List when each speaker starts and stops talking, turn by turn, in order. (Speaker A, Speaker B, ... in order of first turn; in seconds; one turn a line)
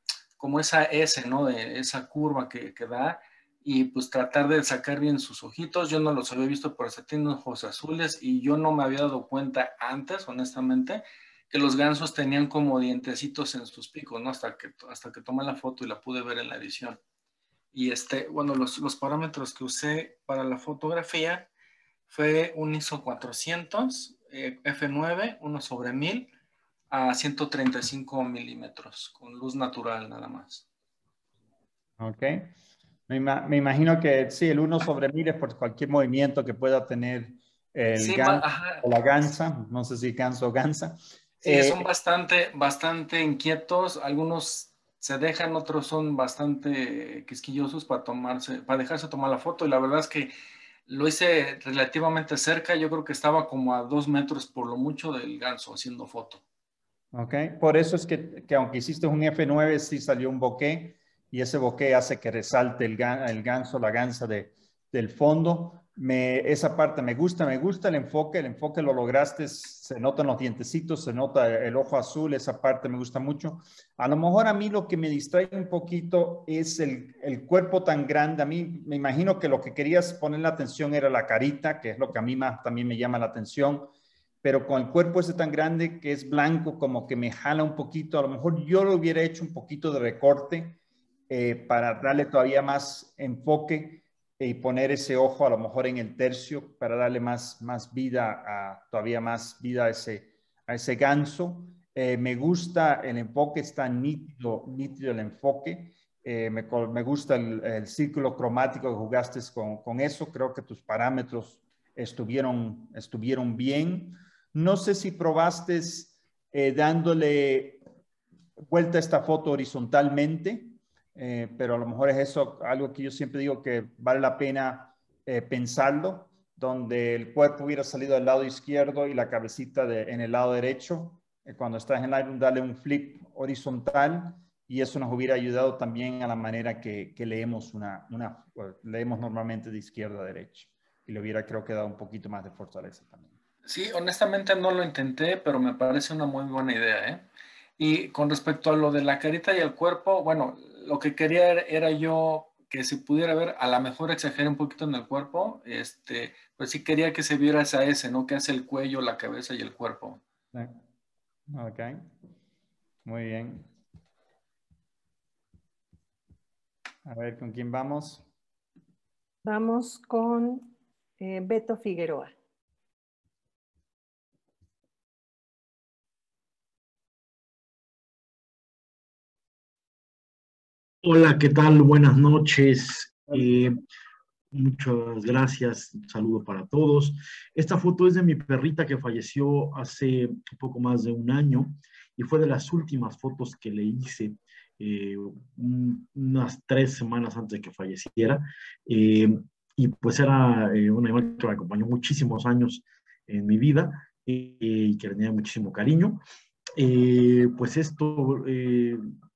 Speaker A: 0.4-17.0
Speaker A: 17.7-21.5
Speaker A: 22.1-26.3
Speaker A: 26.9-30.6
Speaker B: 32.0-32.5
Speaker B: 33.1-41.9
Speaker A: 38.0-38.9
Speaker A: 41.4-50.3
Speaker A: 50.9-56.4
Speaker B: 57.1-83.9
Speaker B: 84.4-90.8
Speaker B: 91.3-117.8
Speaker B: 118.7-143.3
Speaker A: 143.7-147.2
Speaker A: 147.8-160.2
Speaker B: 160.5-160.8
Speaker B: 161.5-162.1
Speaker B: 163.1-163.7
Speaker B: 167.1-168.2
Speaker C: 169.4-172.3
Speaker D: 181.0-183.8
Speaker D: 184.5-206.2
Speaker D: 206.8-209.0